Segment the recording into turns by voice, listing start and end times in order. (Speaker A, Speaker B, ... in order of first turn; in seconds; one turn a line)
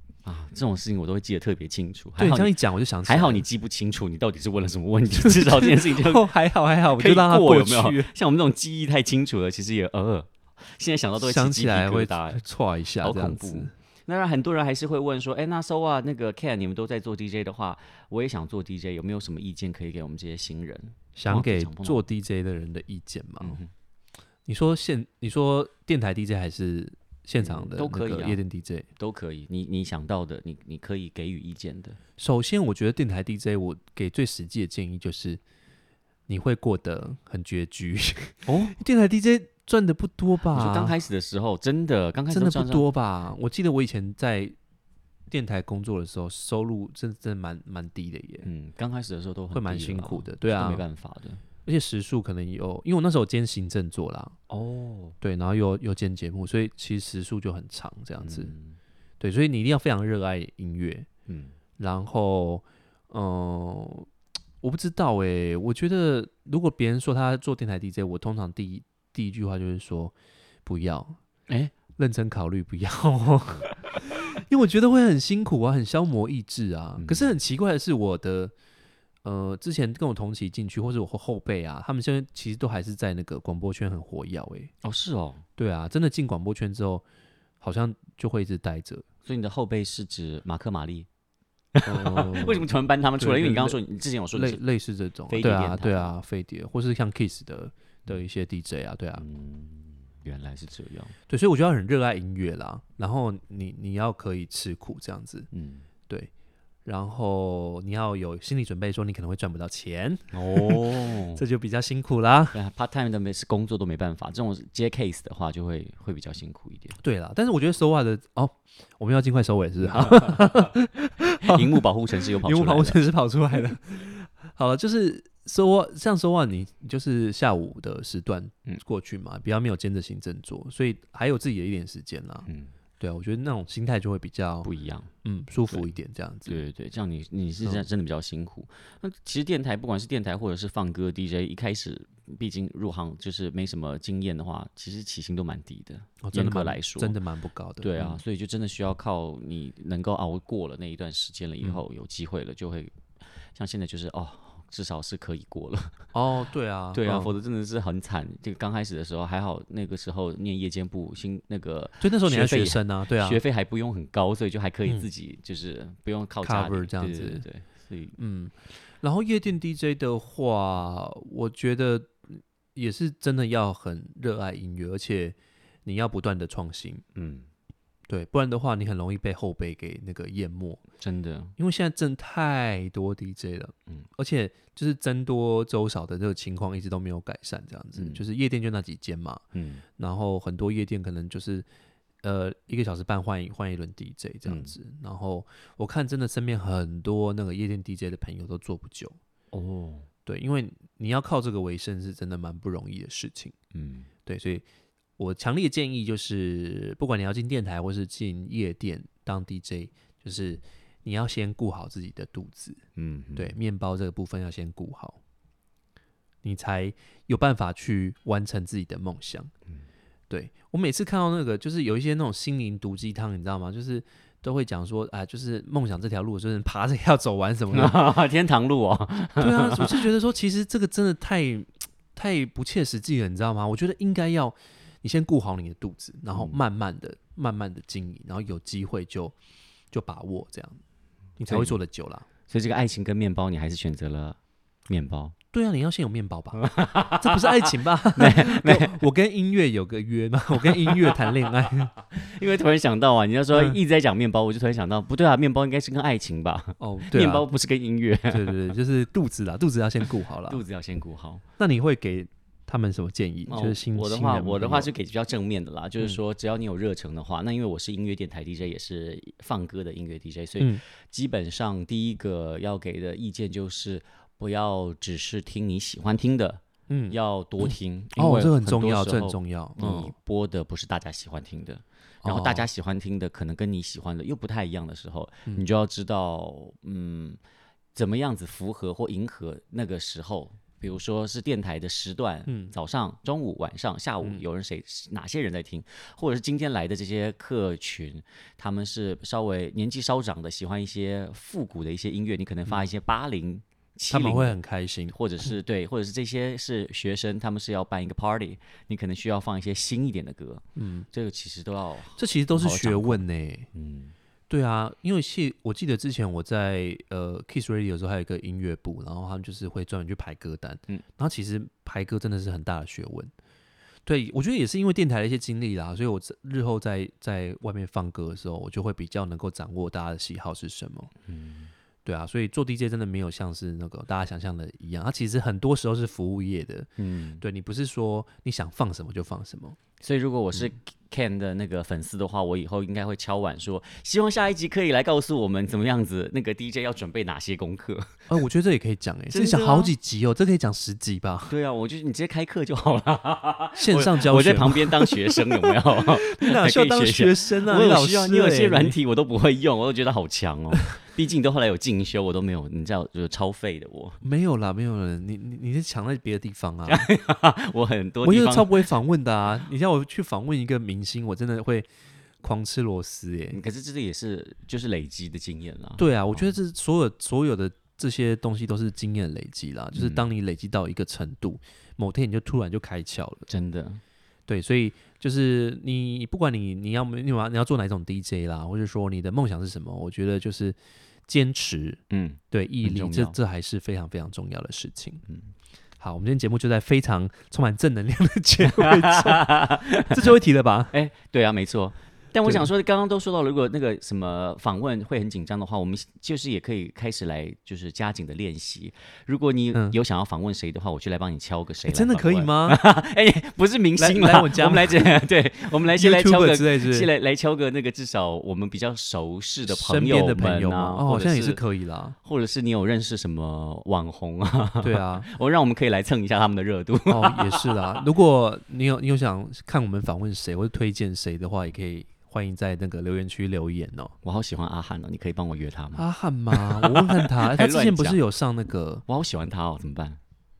Speaker A: 0.2-6.3
Speaker B: 2.2-3.4
Speaker B: 5.2-8.1
Speaker A: 7.0-12.4
Speaker B: 11.2-13.7
Speaker A: 13.0-22.0
Speaker B: 21.1-23.6
Speaker A: 23.4-23.7
Speaker B: 24.4-28.9
Speaker A: 27.4-28.4
Speaker A: 29.0-32.0
Speaker B: 32.2-35.4
Speaker B: 36.3-41.0
Speaker A: 38.4-38.8
Speaker A: 40.5-42.9
Speaker B: 42.3-44.5
Speaker B: 45.3-48.5
Speaker A: 48.4-51.4
Speaker B: 49.5-50.8
Speaker B: 51.6-54.3
Speaker A: 54.5-55.1
Speaker B: 55.2-58.5
Speaker A: 58.2-58.8
Speaker B: 59.2-61.1
Speaker A: 61.3-61.5
Speaker B: 61.8-64.1
Speaker B: 64.6-71.2
Speaker A: 71.5-71.7
Speaker B: 72.0-78.5
Speaker A: 77.0-77.3
Speaker B: 79.2-84.7
Speaker A: 84.8-85.4
Speaker B: 85.6-87.0
Speaker B: 87.6-89.0
Speaker A: 89.2-91.1
Speaker A: 91.7-94.6
Speaker B: 91.8-92.7
Speaker B: 93.2-93.8
Speaker B: 94.3-99.2
Speaker A: 95.3-96.1
Speaker A: 99.2-101.1
Speaker B: 101.3-105.5
Speaker A: 105.5-105.9
Speaker B: 106.8-112.5
Speaker A: 110.3-111.4
Speaker A: 112.5-117.0
Speaker B: 117.0-121.8
Speaker A: 119.8-120.7
Speaker A: 121.4-123.0
Speaker B: 122.4-132.5
Speaker B: 133.0-134.7
Speaker A: 134.6-135.1
Speaker B: 135.2-136.6
Speaker A: 136.5-147.1
Speaker B: 146.2-148.2
Speaker A: 147.8-152.9
Speaker A: 153.5-156.0
Speaker B: 156.1-157.3
Speaker A: 156.9-168.2
Speaker B: 162.0-163.4
Speaker B: 166.4-167.4
Speaker B: 168.2-177.0
Speaker A: 177.1-177.5
Speaker B: 178.1-180.8
Speaker A: 181.0-181.5
Speaker B: 181.6-189.4
Speaker A: 187.9-188.2
Speaker A: 189.5-189.8
Speaker B: 190.0-191.7
Speaker B: 192.2-199.2
Speaker A: 194.4-194.7
Speaker A: 199.5-200.1
Speaker B: 200.2-203.5
Speaker A: 203.7-204.1
Speaker B: 204.2-204.6
Speaker B: 205.2-212.8
Speaker A: 212.9-213.5
Speaker B: 213.3-215.2
Speaker B: 216.4-219.5
Speaker B: 220.3-228.0
Speaker A: 227.7-230.1
Speaker B: 229.4-239.3
Speaker A: 236.3-236.6
Speaker B: 239.9-240.8
Speaker B: 241.4-242.2
Speaker A: 241.5-241.8
Speaker A: 242.5-244.4
Speaker A: 244.9-245.3
Speaker B: 245.5-246.6
Speaker A: 246.6-249.0
Speaker B: 247.2-251.9
Speaker A: 250.6-251.2
Speaker A: 252.0-258.6
Speaker B: 256.8-257.4
Speaker B: 258.3-260.6
Speaker A: 260.5-261.4
Speaker B: 261.6-264.9
Speaker A: 263.5-287.4
Speaker B: 276.9-277.2
Speaker B: 278.1-280.1
Speaker B: 282.2-282.6
Speaker A: 287.9-304.5
Speaker B: 292.5-292.7
Speaker B: 304.1-305.1
Speaker A: 305.1-313.2
Speaker B: 310.8-311.1
Speaker B: 312.2-313.7
Speaker A: 313.7-314.1
Speaker B: 314.5-323.3
Speaker B: 324.1-331.1
Speaker A: 331.3-331.7
Speaker B: 332.0-336.9
Speaker A: 337.0-337.4
Speaker B: 337.4-339.8
Speaker A: 340.0-348.2
Speaker B: 348.3-351.5
Speaker A: 349.3-349.9
Speaker A: 351.5-364.2
Speaker B: 353.8-358.9
Speaker B: 364.2-367.1
Speaker A: 366.9-368.9
Speaker B: 368.2-371.9
Speaker B: 372.4-373.6
Speaker A: 373.5-376.5
Speaker B: 376.0-383.5
Speaker A: 379.9-380.2
Speaker A: 383.5-384.0
Speaker B: 384.5-395.2
Speaker A: 392.1-393.4
Speaker B: 396.0-399.5
Speaker A: 398.6-400.3
Speaker B: 400.1-400.9
Speaker A: 400.9-421.6
Speaker B: 411.9-412.8
Speaker B: 414.0-415.2
Speaker B: 415.9-417.1
Speaker B: 419.7-422.1
Speaker A: 422.2-428.1
Speaker B: 424.8-425.3
Speaker B: 427.1-434.1
Speaker A: 434.2-438.2
Speaker B: 435.9-439.0
Speaker A: 439.1-440.2